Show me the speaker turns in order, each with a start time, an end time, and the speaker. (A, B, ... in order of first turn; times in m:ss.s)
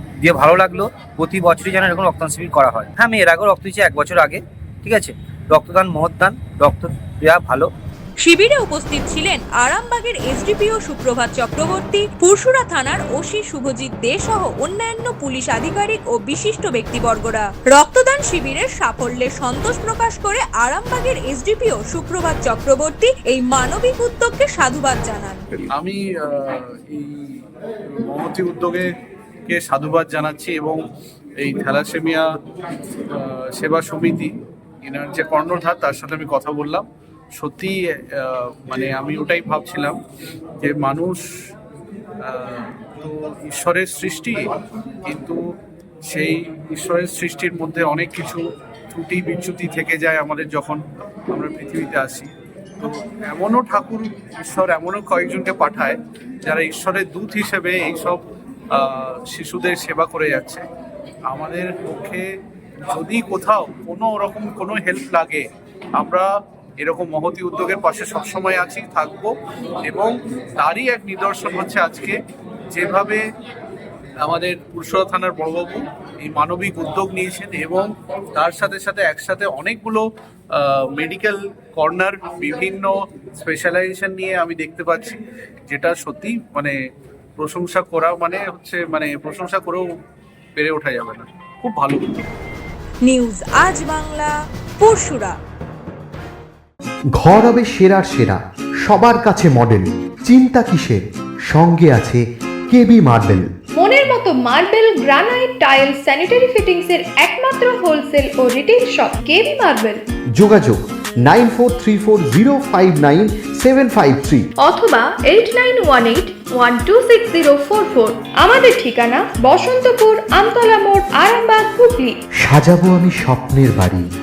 0:00.2-0:07.7 A
0:08.2-0:25.4 B
0:25.7-0:28.9 C
0:29.5-0:30.8 C
0:31.4-0:32.2 C
0:33.1-0:34.3 C
0:34.8-0:40.0 C
0:40.6-0:41.2 C
0:42.2-0:44.5 C
0:45.0-0:45.4 C
0:46.1-1:00.6 C
1:01.3-1:02.3 C
1:02.9-1:05.4 C
1:06.0-1:09.3 C
1:09.8-1:12.2 C
1:12.7-1:13.2 C
1:14.2-1:26.7 C
1:27.4-1:29.9 C
1:30.6-1:32.3 C
1:33.0-1:35.4 B
1:37.2-1:43.5 D
1:43.8-1:50.0 E
1:50.4-1:54.5 D
1:54.6-2:02.2 E
2:02.4-2:04.0 D